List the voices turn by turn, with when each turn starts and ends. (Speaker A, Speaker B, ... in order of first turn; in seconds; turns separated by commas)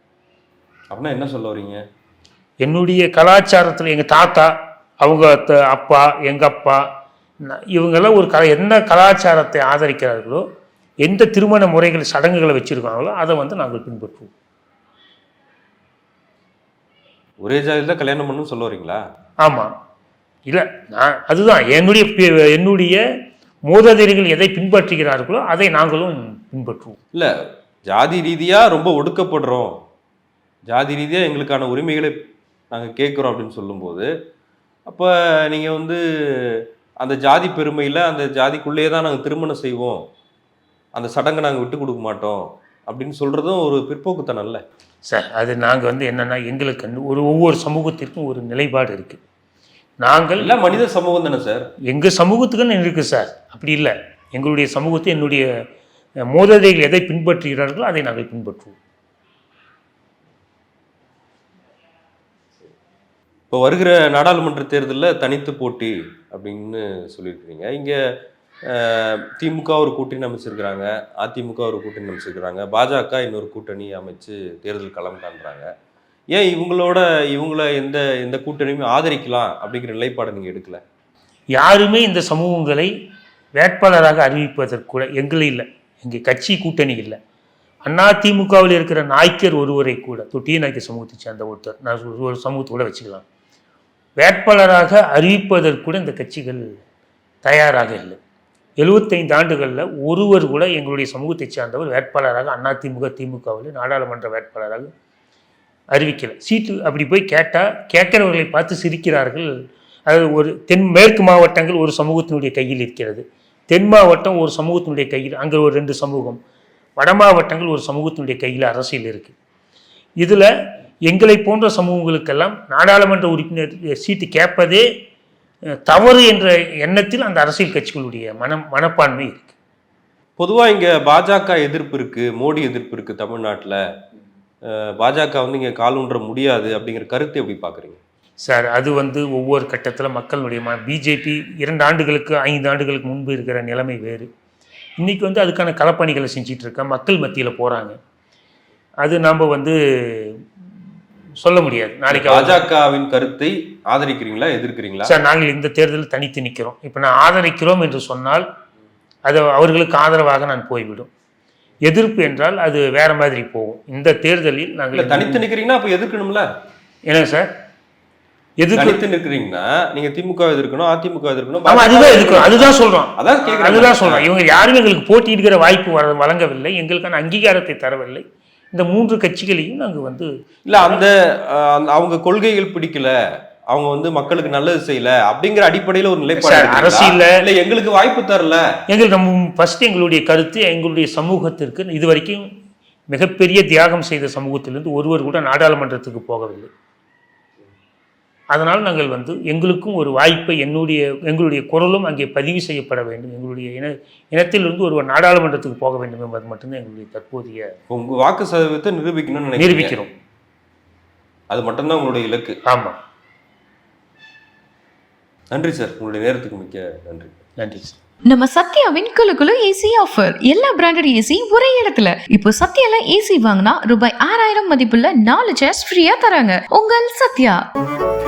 Speaker A: 0.9-1.8, Speaker B: 2.6-6.8, Speaker B: 7.5-10.4, Speaker B: 11.0-14.3, Speaker A: 17.4-19.0, Speaker B: 19.4-19.7, Speaker B: 20.5-23.0, Speaker B: 23.7-27.0, Speaker A: 27.9-29.8, Speaker A: 30.7-32.2, Speaker A: 32.7-34.1, Speaker A: 34.9-40.0, Speaker A: 40.9-44.6, Speaker B: 45.1-49.2, Speaker B: 50.0-50.6, Speaker A: 50.4-51.7, Speaker B: 51.9-55.5, Speaker B: 56.3-58.8, Speaker A: 63.5-68.0, Speaker A: 68.6-75.7, Speaker A: 76.3-80.8, Speaker B: 81.5-82.9, Speaker B: 83.6-87.2, Speaker B: 87.8-93.2, Speaker B: 94.2-96.7, Speaker B: 97.4-98.2, Speaker B: 98.8-104.9, Speaker B: 105.9-109.5, Speaker B: 110.1-116.4, Speaker B: 117.0-119.3, Speaker B: 120.2-120.5, Speaker B: 121.1-124.9, Speaker B: 125.8-129.5, Speaker A: 130.4-133.8, Speaker A: 134.7-138.0, Speaker B: 138.4-144.3, Speaker B: 145.0-147.9, Speaker B: 149.0-150.4, Speaker B: 151.4-152.6, Speaker A: 152.1-155.1, Speaker B: 155.1-158.5, Speaker B: 159.2-161.1, Speaker B: 161.8-165.4, Speaker A: 164.9-166.5, Speaker B: 167.1-167.5, Speaker B: 168.6-169.0, Speaker A: 168.8-174.3, Speaker B: 171.7-181.0, Speaker A: 180.7-183.1, Speaker A: 183.7-188.6, Speaker B: 186.4-187.4, Speaker B: 188.9-192.4, Speaker B: 193.1-196.7, Speaker B: 198.5-207.7, Speaker A: 207.9-209.9, Speaker B: 209.6-210.1, Speaker A: 211.5-212.6, Speaker B: 212.7-213.0, Speaker A: 215.5-217.4, Speaker B: 217.6-217.9, Speaker C: 218.3-227.6